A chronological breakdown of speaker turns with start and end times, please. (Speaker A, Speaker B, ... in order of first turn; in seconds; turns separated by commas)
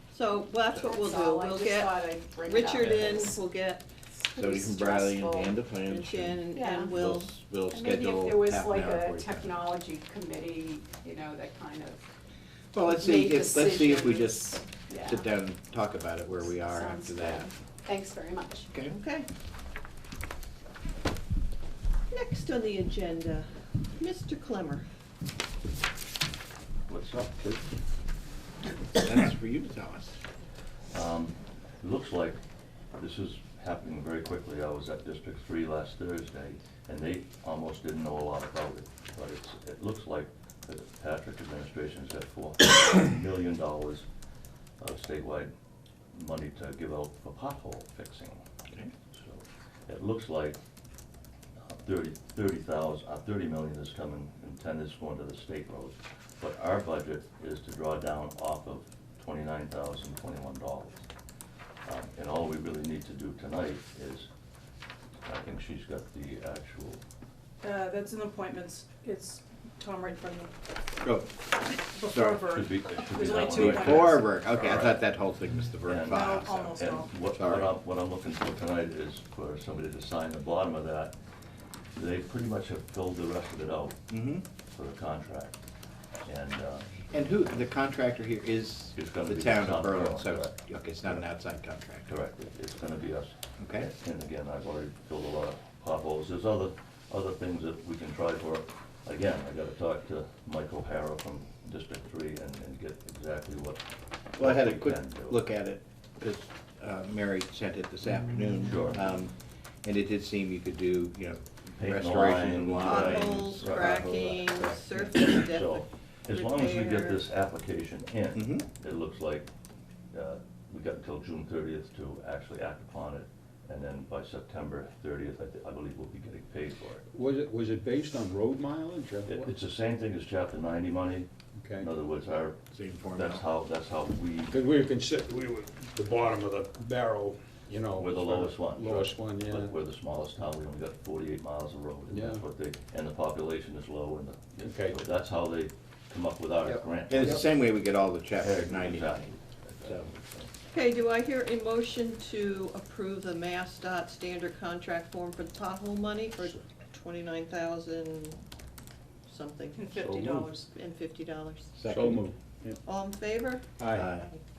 Speaker A: 0.1-3.8, Speaker B: 0.7-3.4, Speaker B: 4.1-5.6, Speaker C: 4.3-9.6, Speaker A: 5.9-7.3, Speaker B: 6.5-6.9, Speaker B: 7.7-12.1, Speaker C: 12.7-17.5, Speaker B: 12.8-15.2, Speaker B: 16.5-18.7, Speaker A: 18.9-19.3, Speaker A: 22.1-24.8, Speaker D: 26.9-27.6, Speaker C: 28.9-30.2, Speaker D: 30.9-32.4, Speaker D: 33.0-44.0, Speaker D: 44.8-45.5, Speaker D: 46.1-48.4, Speaker D: 49.1-50.5, Speaker D: 51.6-61.0, Speaker D: 61.8-64.3, Speaker D: 65.2-67.0, Speaker E: 67.6-70.5, Speaker C: 71.0-71.4, Speaker E: 71.9-74.3, Speaker C: 72.0-72.4, Speaker D: 72.5-75.0, Speaker C: 73.2-76.6, Speaker D: 75.8-81.1, Speaker E: 76.1-77.1, Speaker C: 77.3-77.7, Speaker D: 81.9-84.0, Speaker C: 84.1-84.4, Speaker D: 84.7-85.6, Speaker D: 86.2-87.0, Speaker C: 87.1-92.1, Speaker D: 88.9-90.5, Speaker D: 92.0-105.4, Speaker C: 93.6-93.9, Speaker C: 104.4-109.3, Speaker D: 108.6-109.0, Speaker C: 109.8-114.0, Speaker D: 111.8-119.5, Speaker A: 112.8-117.2, Speaker C: 118.3-118.6, Speaker D: 120.1-127.0, Speaker F: 127.1-129.5, Speaker D: 129.3-131.3, Speaker F: 131.6-131.9, Speaker D: 131.8-132.6, Speaker C: 132.7-133.4, Speaker D: 133.1-134.6, Speaker F: 134.5-139.8, Speaker D: 138.0-147.4, Speaker F: 142.1-142.4, Speaker F: 144.6-145.0, Speaker C: 147.0-149.2, Speaker D: 148.4-150.5, Speaker A: 150.7-158.4, Speaker A: 159.3-159.8, Speaker E: 159.7-160.7, Speaker F: 159.9-160.5, Speaker A: 160.7-161.7, Speaker C: 161.8-162.2, Speaker F: 161.8-162.8, Speaker A: 162.8-163.7, Speaker F: 163.8-164.1, Speaker C: 163.9-164.3